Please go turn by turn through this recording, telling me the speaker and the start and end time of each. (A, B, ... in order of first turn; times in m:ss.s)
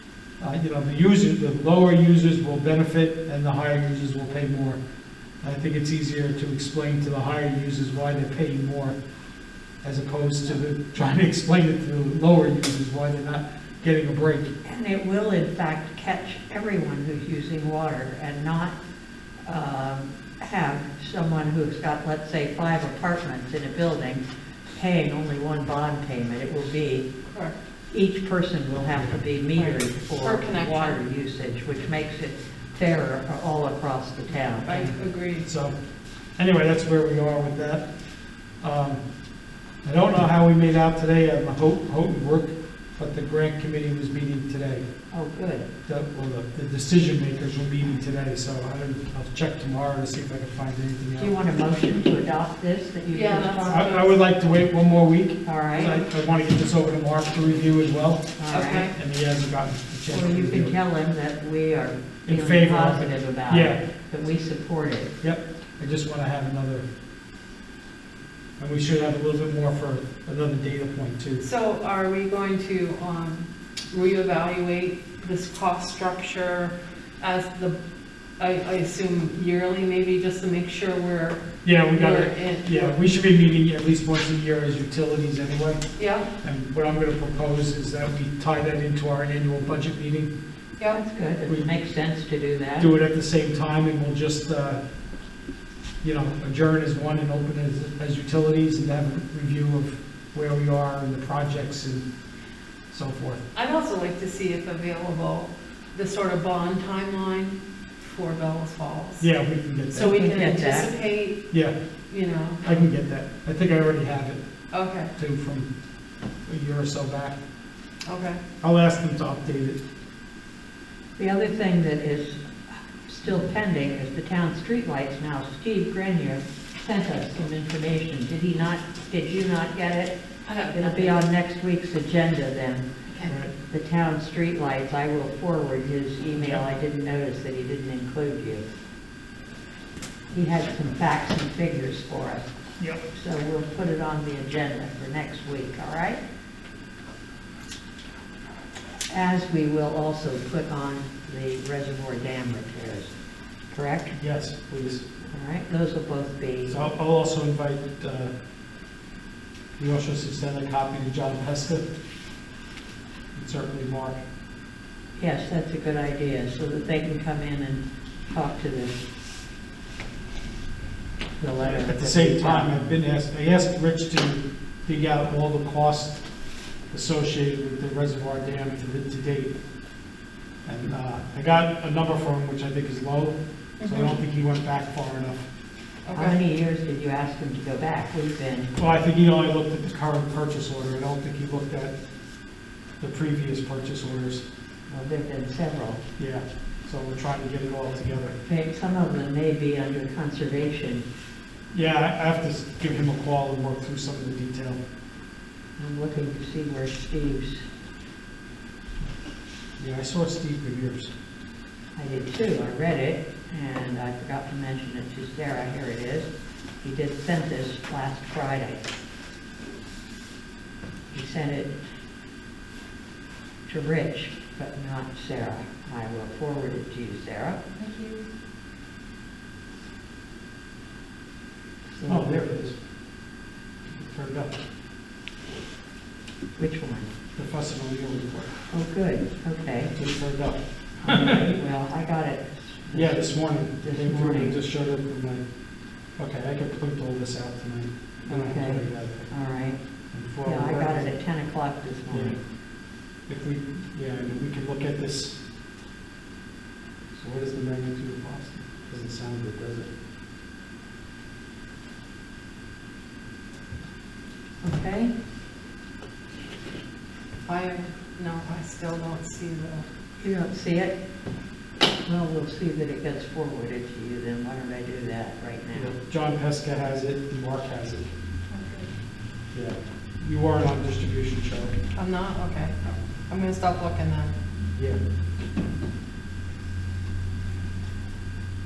0:00.4-0:04.8 A
0:05.4-0:09.0 A
0:09.8-0:14.5 A
0:14.6-0:18.8 B
0:19.4-0:24.2 B
0:24.8-0:27.1 B
0:27.3-0:27.6 C
0:27.9-0:34.8 B
0:29.6-0:31.0 C
0:34.7-0:35.5 C
0:34.7-0:35.8 A
0:36.4-0:37.9 A
0:38.6-0:39.0 A
0:39.8-0:44.8 A
0:45.1-0:45.7 B
0:45.8-0:51.4 A
0:51.2-0:53.9 B
0:53.1-0:54.2 C
0:53.7-1:00.8 A
0:55.4-0:56.0 B
0:58.4-0:58.9 B
0:58.5-0:58.9 C
1:00.1-1:05.1 B
1:02.2-1:03.8 A
1:05.2-1:06.8 A
1:08.6-1:11.4 A
1:11.4-1:17.8 C
1:18.4-1:23.0 C
1:21.6-1:25.8 A
1:26.0-1:26.3 C
1:26.4-1:30.3 A
1:30.9-1:32.9 B
1:32.8-1:34.8 A
1:36.0-1:42.0 A
1:42.9-1:43.4 A
1:43.5-1:49.3 C
1:49.2-1:50.2 A
1:49.9-1:51.4 C
1:50.1-1:50.9 B
1:52.1-1:52.9 C
1:52.6-1:54.4 A
1:54.7-1:55.1 C
1:55.1-1:55.7 A
1:56.5-1:57.4 A
1:58.0-1:58.4 C
1:58.6-1:59.8 A
2:01.2-2:02.5 B
2:03.0-2:12.9 B
2:10.4-2:11.2 C
2:13.1-2:13.4 C
2:13.3-2:13.5 A
2:13.7-2:18.6 B
2:16.4-2:16.6 A
2:20.3-2:22.5 B
2:23.1-2:26.2 B
2:29.1-2:33.1 B
2:33.7-2:34.1 B
2:34.1-2:35.0 A
2:35.3-2:36.8 B
2:36.7-2:38.3 A
2:39.8-2:41.9 A
2:43.3-2:44.2 A
2:45.2-2:49.0 B
2:51.4-2:56.3 A
2:51.4-2:52.7 B
2:56.9-2:59.6 A
3:00.6-3:05.4 A
3:03.8-3:04.2 C
3:06.0-3:06.4 C
3:06.1-3:08.7 B
3:08.8-3:12.0 A
3:13.0-3:14.4 A
3:14.9-3:16.0 B
3:16.2-3:18.4 A
3:18.4-3:21.0 B
3:21.7-3:24.8 A
3:25.8-3:27.6 B
3:29.8-3:31.1 A
3:32.0-3:36.3 B
3:36.8-3:38.8 B
3:41.1-3:41.8 B
3:43.7-3:47.6 B
3:47.8-3:48.2 C
3:52.0-3:52.8 A
3:53.9-3:54.6 A
3:56.6-3:57.1 B
3:57.4-3:58.6 A
3:58.7-3:59.9 B
3:59.9-4:01.5 A
4:01.0-4:04.6 B
4:02.9-4:09.5 A
4:08.3-4:12.4 B
4:10.1-4:11.2 A
4:12.1-4:15.4 A
4:17.1-4:19.9 A
4:24.6-4:25.1 B
4:27.4-4:29.8 C
4:30.2-4:31.0 B
4:32.0-4:35.9 B
4:35.7-4:38.1 A
4:39.5-4:41.8 A
4:41.9-4:44.3 C
4:44.8-4:45.0 A